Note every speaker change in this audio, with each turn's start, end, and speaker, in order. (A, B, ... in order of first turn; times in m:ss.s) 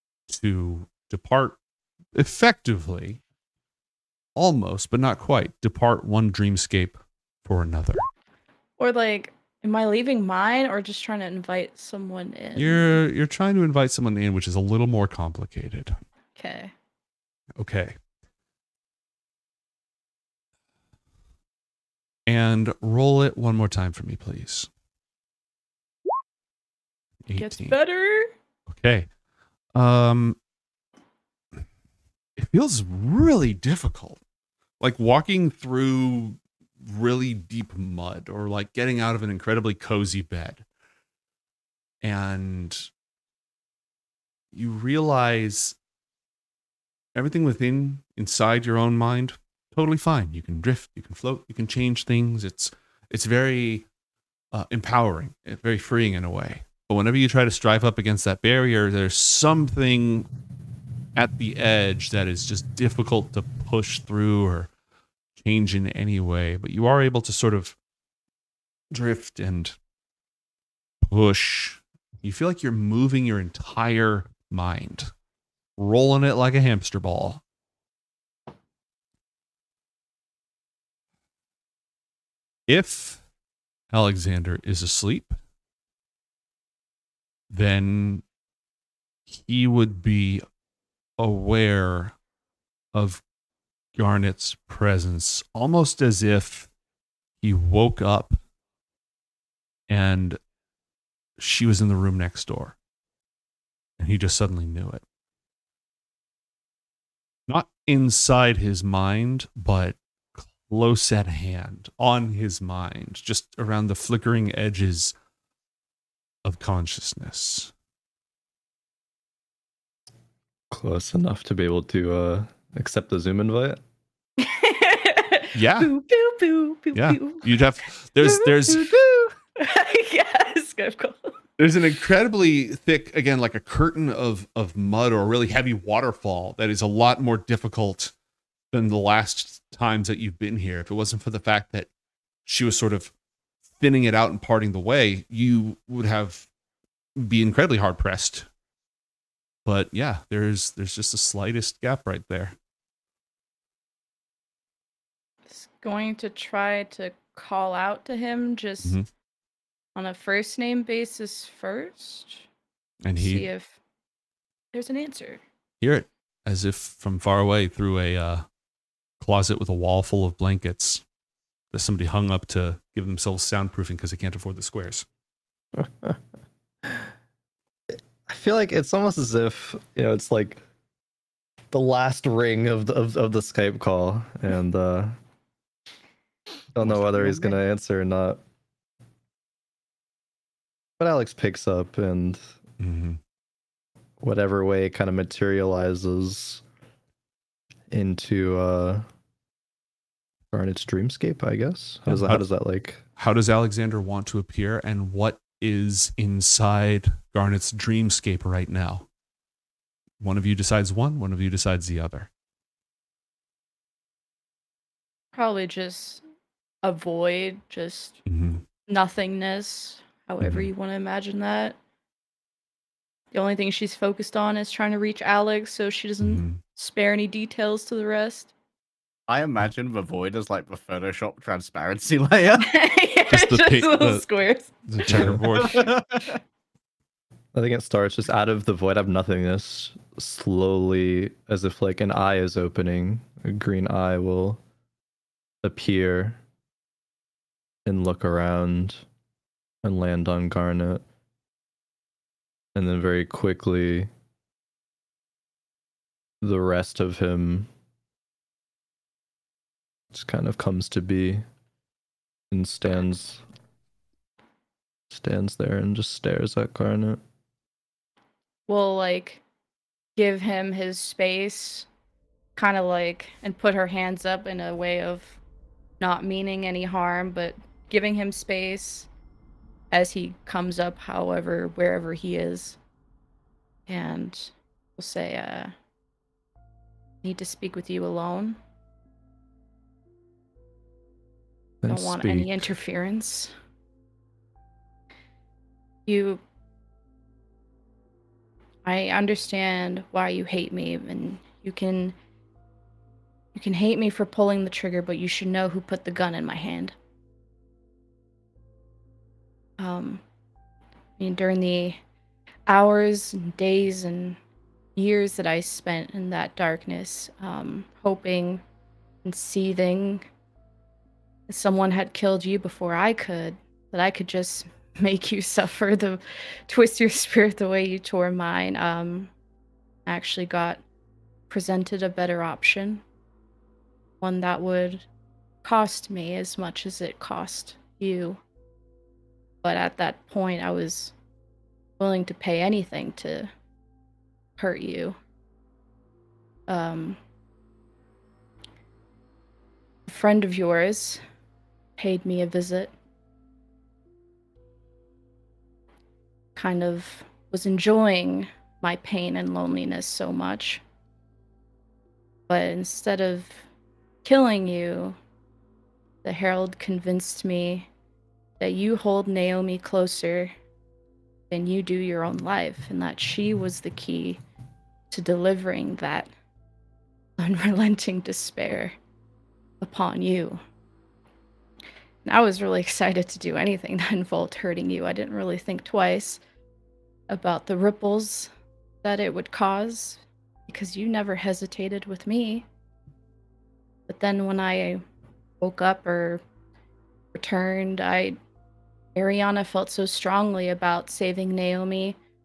0:00.3-0:01.6 A
0:02.1-0:03.2 A
0:04.4-0:08.0 A
0:08.8-0:13.0 B
0:12.6-0:16.0 A
0:16.4-0:16.7 B
0:17.6-0:18.0 A
0:22.3-0:24.7 A
0:27.3-0:27.8 A
0:27.4-0:28.3 B
0:28.7-0:29.1 A
0:29.7-0:30.4 A
0:32.4-0:34.2 A
0:34.8-0:40.6 A
0:42.0-0:42.9 A
0:44.5-0:45.7 A
0:47.1-0:53.8 A
0:54.5-1:00.3 A
1:01.2-1:04.7 A
1:05.4-1:07.8 A
1:08.9-1:09.8 A
1:11.1-1:15.1 A
1:15.8-1:17.4 A
1:22.7-1:23.2 A
1:23.9-1:25.4 A
1:27.5-1:28.2 A
1:29.3-1:30.4 A
1:31.2-1:32.1 A
1:32.9-1:33.2 A
1:34.0-1:36.7 A
1:37.4-1:38.4 A
1:39.9-1:40.4 A
1:41.4-1:42.8 A
1:44.0-1:45.0 A
1:47.5-1:55.1 A
1:56.4-1:57.7 A
2:00.7-2:03.8 C
2:04.4-2:07.5 B
2:05.6-2:05.9 A
2:06.9-2:08.9 A
2:08.2-2:11.4 B
2:11.6-2:18.1 A
2:18.7-2:21.9 A
2:22.4-2:23.1 A
2:23.8-2:26.5 A
2:27.2-2:28.5 A
2:29.6-2:32.6 A
2:35.5-2:39.0 B
2:40.0-2:42.4 B
2:43.0-2:43.5 A
2:43.2-2:43.8 B
2:44.7-2:45.4 B
2:45.8-2:48.4 A
2:49.2-2:51.0 A
2:51.7-2:55.1 A
2:55.7-2:56.2 C
2:58.3-3:00.6 C
3:01.7-3:05.1 C
3:06.7-3:08.4 C
3:07.1-3:07.6 B
3:11.0-3:12.5 C
3:12.8-3:13.2 A
3:14.2-3:16.6 C
3:17.9-3:19.0 C
3:20.5-3:23.0 C
3:22.1-3:22.4 A
3:23.2-3:29.0 A
3:30.2-3:32.3 A
3:35.4-3:36.2 B
3:36.8-3:38.2 B
3:38.3-3:38.6 A
3:38.9-3:41.8 B
3:40.4-3:40.7 A
3:43.3-3:48.5 B
3:46.2-3:46.6 A
3:49.3-3:52.7 D
3:52.6-3:55.8 B
3:53.3-3:54.2 A
3:54.9-3:55.9 A
3:55.1-3:55.4 C
3:55.6-3:56.4 D
3:57.5-4:04.6 C
4:05.6-4:06.4 C
4:07.9-4:09.0 C
4:09.8-4:11.0 C
4:12.7-4:14.1 C
4:16.4-4:17.7 C
4:20.1-4:21.4 C
4:22.5-4:23.4 C
4:25.1-4:27.2 C
4:28.7-4:29.4 B
4:30.2-4:31.9 B
4:32.6-4:35.4 B
4:36.0-4:39.1 B
4:39.9-4:42.8 B
4:43.9-4:45.7 B
4:47.2-4:48.6 B
4:51.8-4:52.7 C
4:51.9-4:53.5 B
4:56.1-4:56.4 B
4:58.8-5:02.1 B
5:03.6-5:07.0 B
5:09.8-5:10.2 B
5:11.2-5:12.0 B
5:12.7-5:14.4 B
5:15.0-5:18.6 B
5:19.2-5:20.2 B
5:21.5-5:29.3 B
5:30.1-5:30.8 B
5:31.5-5:33.0 B
5:34.2-5:35.0 B
5:35.6-5:38.4 B
5:39.6-5:41.1 B
5:42.0-5:43.5 B
5:44.6-5:45.2 B
5:46.7-5:47.2 B
5:50.1-5:51.2 B
5:52.0-5:52.9 B
5:56.6-6:00.8 B
6:02.5-6:03.7 B
6:04.2-6:05.2 B
6:06.2-6:07.9 B
6:08.6-6:10.5 B
6:11.5-6:14.4 B
6:15.1-6:16.3 B
6:17.4-6:19.0 B
6:19.8-6:20.6 B
6:22.2-6:26.4 B
6:27.3-6:28.5 B
6:29.0-6:32.6 B
6:34.1-6:35.0 B
6:35.6-6:36.4 B
6:37.3-6:38.4 B
6:39.1-6:42.2 B